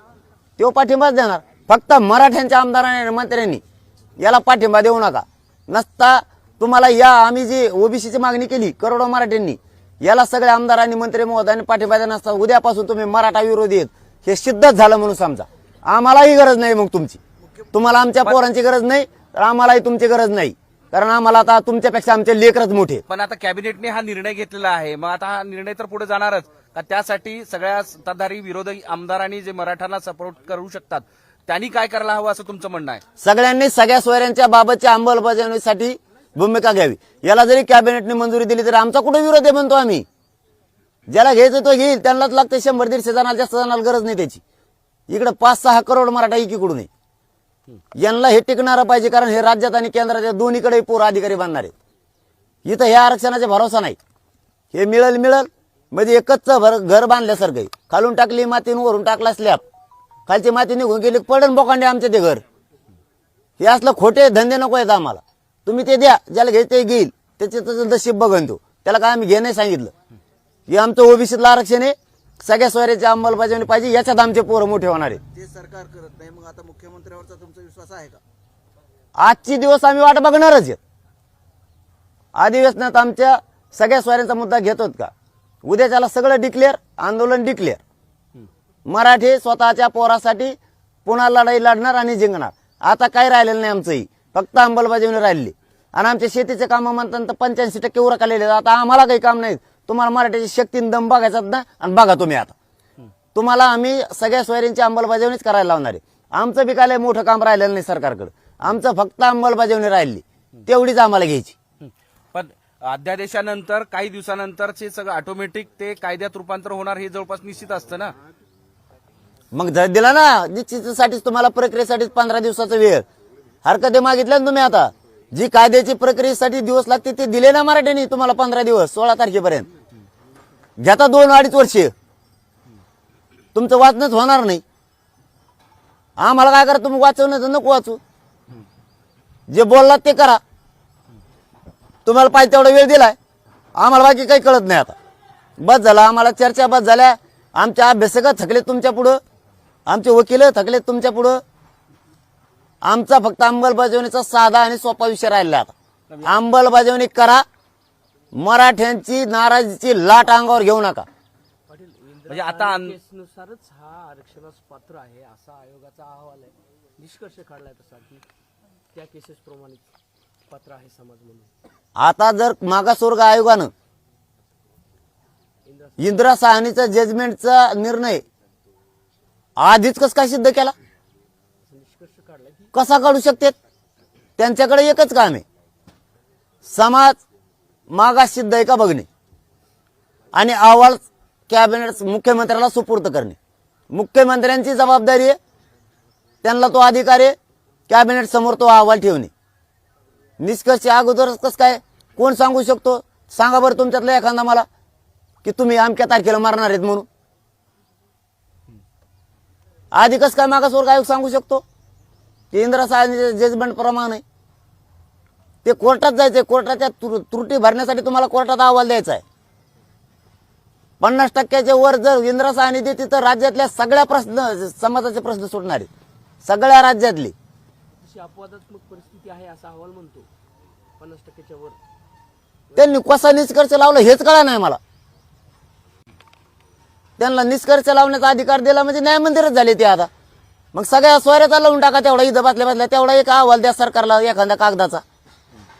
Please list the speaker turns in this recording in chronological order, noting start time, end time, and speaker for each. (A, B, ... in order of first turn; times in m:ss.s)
0:00.6-0:03.6 A
0:04.2-0:17.2 A
0:17.7-0:23.0 A
0:23.1-0:33.0 B
0:33.2-0:40.0 A
0:41.1-0:44.4 A
0:45.1-0:46.9 A
0:48.0-0:51.7 A
0:52.6-0:54.0 A
0:54.7-0:59.6 A
1:00.3-1:02.4 A
1:03.6-1:09.9 A
1:10.7-1:15.2 A
1:15.3-1:18.2 C
1:19.2-1:20.8 A
1:22.4-1:25.1 A
1:25.6-1:27.8 A
1:28.9-1:42.5 A
1:43.3-1:51.5 A
1:51.8-1:58.1 B
1:59.5-2:03.0 A
2:03.6-2:09.7 A
2:10.8-2:11.9 A
2:13.5-2:14.6 A
2:16.2-2:18.0 A
2:19.5-2:20.4 A
2:22.0-2:23.2 A
2:23.8-2:24.9 A
2:25.6-2:29.2 A
2:29.9-2:31.4 A
2:32.8-2:35.7 A
2:36.2-2:37.4 A
2:38.3-2:41.1 A
2:41.7-2:48.2 D
2:42.3-2:43.0 B
2:48.9-2:49.9 D
2:50.5-2:51.5 D
2:52.0-2:53.7 A
2:55.6-2:56.2 D
2:56.0-2:58.2 A
2:59.6-3:00.7 A
3:01.6-3:02.7 D
3:02.7-3:03.6 A
3:04.4-3:05.4 A
3:06.6-3:07.2 A
3:07.9-3:09.1 A
3:10.3-3:13.4 A
3:13.9-3:15.4 A
3:16.4-3:17.4 A
3:17.9-3:19.3 A
3:20.4-3:24.6 A
3:25.4-3:27.1 A
3:29.9-3:31.6 A
3:32.5-3:34.2 A
3:35.6-3:39.2 A
3:41.0-3:45.9 A
3:46.4-3:47.3 A
3:48.0-3:50.3 D
3:51.0-3:51.8 D
3:52.8-3:54.8 A
3:57.2-4:00.1 A
4:00.7-4:05.0 A